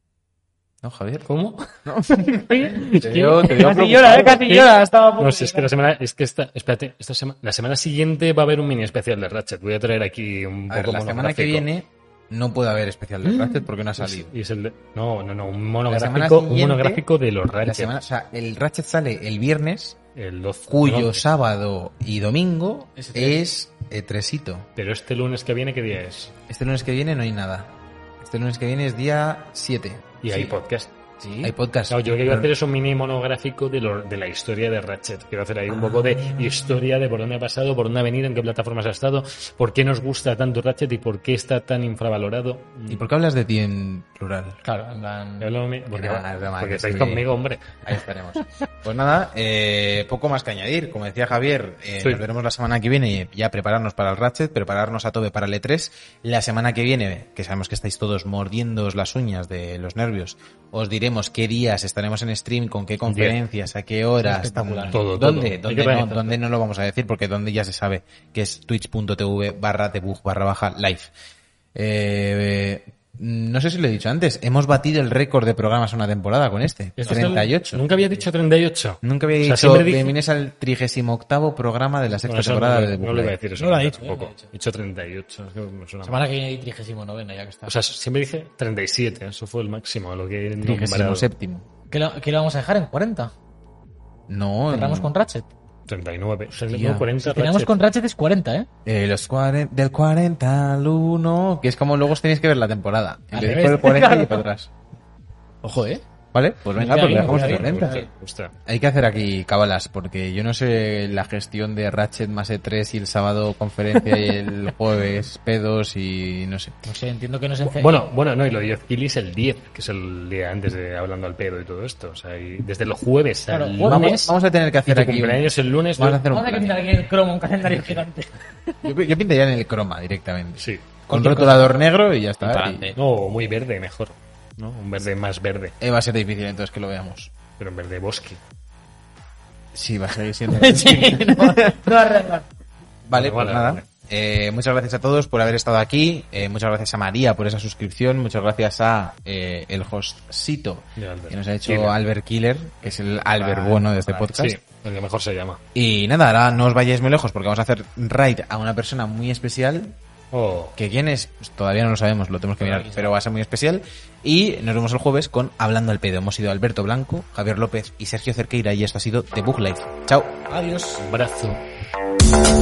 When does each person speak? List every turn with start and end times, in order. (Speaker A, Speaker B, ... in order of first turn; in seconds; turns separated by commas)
Speaker A: 0.8-1.3, Speaker B: 1.2-1.6, Speaker A: 1.8-4.5, Speaker C: 2.2-5.7, Speaker B: 2.7-11.7, Speaker A: 10.7-14.3, Speaker B: 13.2-18.0, Speaker A: 15.9-17.0, Speaker A: 17.6-20.0, Speaker B: 20.1-21.2, Speaker A: 20.7-24.6, Speaker C: 22.9-23.4, Speaker B: 24.8-26.3, Speaker A: 26.5-30.4, Speaker B: 30.2-30.9, Speaker C: 31.2-31.5, Speaker A: 31.4-32.5, Speaker B: 31.9-43.1, Speaker A: 35.9-36.7, Speaker A: 42.9-44.6, Speaker C: 44.6-45.5, Speaker B: 45.4-47.8, Speaker A: 45.9-47.2, Speaker A: 47.8-71.1, Speaker B: 63.1-63.4, Speaker C: 64.2-65.0, Speaker B: 64.9-66.4, Speaker A: 71.7-77.8, Speaker B: 77.0-80.2, Speaker C: 77.0-77.5, Speaker A: 79.0-83.3, Speaker B: 82.2-86.2, Speaker C: 83.6-84.5, Speaker C: 86.0-87.7, Speaker B: 87.7-91.2, Speaker A: 90.6-91.6, Speaker C: 91.9-93.3, Speaker A: 94.3-95.1, Speaker C: 94.7-95.5, Speaker B: 95.9-97.8, Speaker A: 96.7-97.1, Speaker C: 97.2-98.7, Speaker A: 98.8-104.7, Speaker C: 103.3-104.4, Speaker C: 105.6-106.0, Speaker A: 106.3-108.0, Speaker C: 106.8-108.1, Speaker B: 106.9-108.5, Speaker A: 108.7-116.8, Speaker C: 116.8-118.1, Speaker B: 117.7-124.3, Speaker C: 123.5-124.3, Speaker A: 123.8-127.0, Speaker B: 124.8-126.2, Speaker C: 126.3-128.3, Speaker A: 128.8-132.9, Speaker B: 130.6-130.8, Speaker C: 131.1-131.7, Speaker C: 132.4-133.0, Speaker B: 132.9-135.8, Speaker A: 135.8-137.3, Speaker B: 137.6-138.4, Speaker A: 139.7-141.9, Speaker C: 140.5-142.4, Speaker A: 143.1-154.6, Speaker B: 143.1-143.8, Speaker B: 151.0-151.9, Speaker C: 153.0-154.4, Speaker B: 154.3-155.6, Speaker A: 155.7-160.0, Speaker B: 160.3-160.7, Speaker A: 160.8-170.4, Speaker C: 162.6-163.1, Speaker C: 170.5-171.0, Speaker B: 171.0-171.6